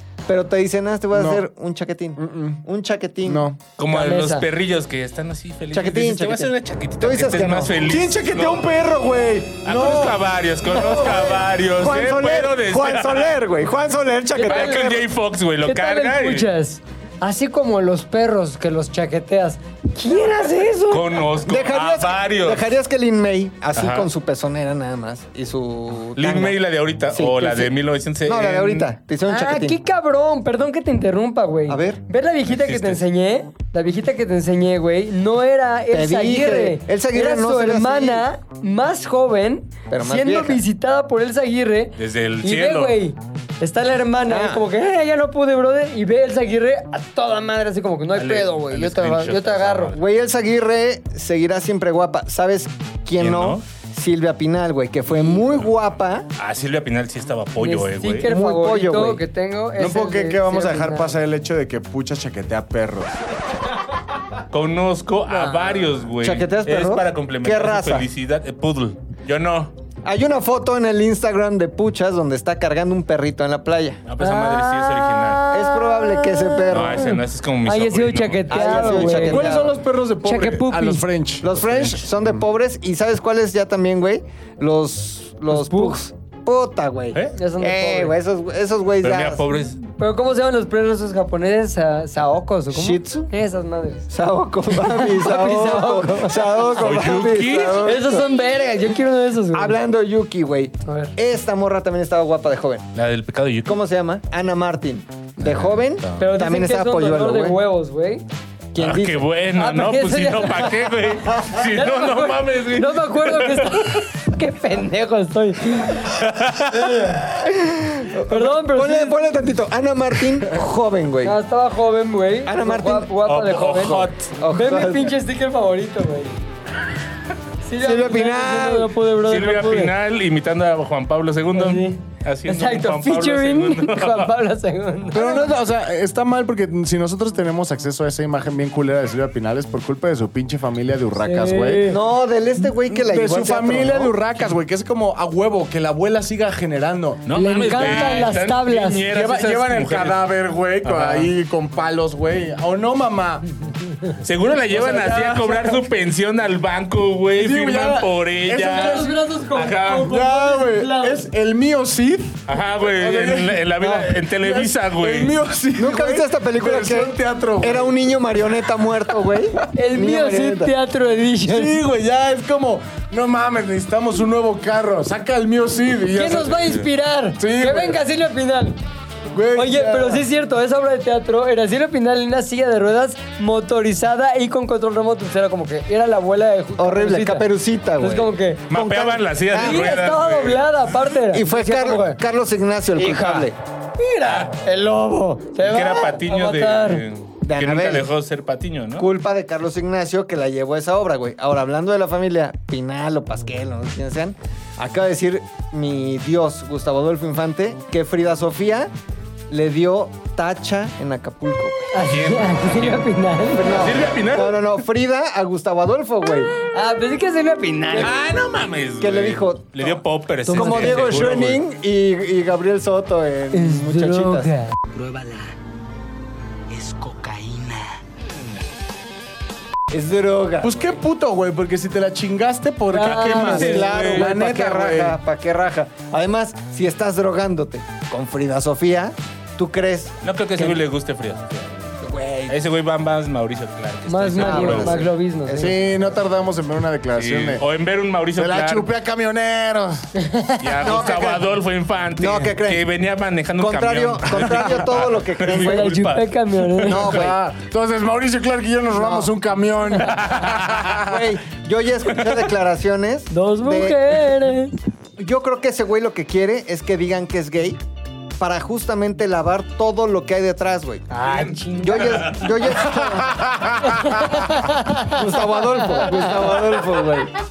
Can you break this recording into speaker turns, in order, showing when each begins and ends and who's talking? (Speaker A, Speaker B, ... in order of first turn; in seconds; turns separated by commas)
Speaker A: 0.3-3.5, Speaker B: 1.1-1.4, Speaker B: 2.2-2.5, Speaker B: 3.2-3.6, Speaker C: 3.8-8.8, Speaker D: 3.9-4.5, Speaker A: 5.7-7.8, Speaker B: 7.8-11.0, Speaker C: 9.6-13.4, Speaker A: 10.8-15.1, Speaker D: 14.3-15.0, Speaker C: 14.4-16.5, Speaker D: 15.6-21.1, Speaker C: 20.9-22.7, Speaker A: 21.4-26.6, Speaker C: 23.7-24.1, Speaker C: 26.2-28.9, Speaker A: 27.1-27.7, Speaker A: 28.3-29.8, Speaker D: 29.3-50.0, Speaker A: 31.7-32.0, Speaker C: 32.5-33.0, Speaker A: 35.9-38.2, Speaker A: 39.9-40.6, Speaker C: 42.0-43.0, Speaker A: 44.3-44.6, Speaker C: 48.1-50.0, Speaker A: 50.0-56.3, Speaker C: 53.2-53.6, Speaker C: 55.1-55.7, Speaker C: 56.4-58.3, Speaker D: 57.6-61.2, Speaker A: 58.2-59.2, Speaker B: 59.8-63.2, Speaker C: 64.5-69.7, Speaker A: 65.3-68.1, Speaker A: 70.0-74.0, Speaker C: 74.0-75.5, Speaker D: 74.2-79.6, Speaker A: 75.5-77.1, Speaker C: 76.7-78.8, Speaker A: 78.5-79.8, Speaker B: 78.7-82.0, Speaker D: 80.2-81.1, Speaker A: 81.4-89.4, Speaker D: 85.5-86.0, Speaker D: 87.3-88.2, Speaker C: 89.0-89.8, Speaker D: 90.0-94.1, Speaker A: 92.7-93.3, Speaker A: 94.1-98.3, Speaker D: 94.7-96.6, Speaker C: 96.7-97.9, Speaker D: 97.8-99.8, Speaker A: 99.5-102.9, Speaker D: 100.8-101.2, Speaker C: 103.0-103.8, Speaker A: 103.7-107.6, Speaker C: 105.4-106.2, Speaker D: 106.2-108.2, Speaker A: 108.7-109.2, Speaker C: 108.8-114.1, Speaker D: 109.6-116.0, Speaker C: 115.9-117.2, Speaker A: 117.2-121.4, Speaker D: 118.3-119.3, Speaker D: 121.2-126.4, Speaker A: 122.5-123.2, Speaker C: 123.3-124.3, Speaker A: 123.7-125.1, Speaker D: 127.6-129.9, Speaker A: 127.8-128.9, Speaker C: 129.2-134.3, Speaker D: 131.5-135.5, Speaker B: 135.1-142.0, Speaker D: 141.2-142.0, Speaker A: 141.9-144.1, Speaker B: 142.9-148.2, Speaker C: 147.2-150.3, Speaker D: 147.3-149.1, Speaker B: 149.1-153.5, Speaker C: 150.8-151.3, Speaker D: 153.7-155.8, Speaker C: 154.2-160.2, Speaker B: 157.3-159.2, Speaker D: 158.6-161.3, Speaker B: 159.9-168.0, Speaker C: 162.5-165.4, Speaker A: 165.8-170.7, Speaker B: 169.1-169.4, Speaker D: 169.8-171.8, Speaker B: 171.4-176.8, Speaker D: 176.1-178.8, Speaker B: 177.4-178.0, Speaker B: 179.3-180.2, Speaker D: 179.6-187.5, Speaker A: 186.8-189.9, Speaker D: 188.0-188.7, Speaker C: 188.7-190.7, Speaker D: 189.5-192.2, Speaker A: 191.3-193.6, Speaker D: 192.9-197.0, Speaker C: 194.3-194.5, Speaker C: 195.6-199.1, Speaker A: 197.4-198.1, Speaker A: 199.0-208.9, Speaker A: 209.5-211.9, Speaker D: 211.9-213.9, Speaker C: 212.1-213.1, Speaker A: 213.6-216.5, Speaker C: 213.6-214.8, Speaker D: 216.7-218.2, Speaker C: 217.9-221.6, Speaker A: 219.0-220.0, Speaker D: 220.5-221.3, Speaker A: 220.5-224.5, Speaker D: 223.5-224.8, Speaker E: 224.9-225.6, Speaker E: 226.7-228.0, Speaker A: 229.9-230.9, Speaker B: 230.6-235.2, Speaker D: 232.9-233.8, Speaker C: 233.0-234.3, Speaker A: 233.4-240.8, Speaker C: 240.2-241.9, Speaker A: 242.0-242.6, Speaker C: 242.5-245.1, Speaker D: 244.1-245.8, Speaker A: 244.4-246.2, Speaker B: 245.6-247.6, Speaker C: 247.1-248.9, Speaker B: 248.4-250.1, Speaker D: 250.2-250.6, Speaker C: 250.6-257.3, Speaker A: 250.8-251.6, Speaker A: 252.2-252.8, Speaker A: 253.6-256.0, Speaker D: 255.5-257.0, Speaker A: 256.9-257.4, Speaker B: 256.9-261.4, Speaker A: 258.9-259.3, Speaker C: 260.0-261.0, Speaker A: 260.9-264.2, Speaker D: 263.3-264.7, Speaker A: 265.2-267.8, Speaker A: 268.4-271.1, Speaker D: 271.1-272.5, Speaker C: 271.2-272.7, Speaker A: 271.8-273.5, Speaker B: 273.0-274.5, Speaker D: 273.8-276.3, Speaker A: 275.1-277.3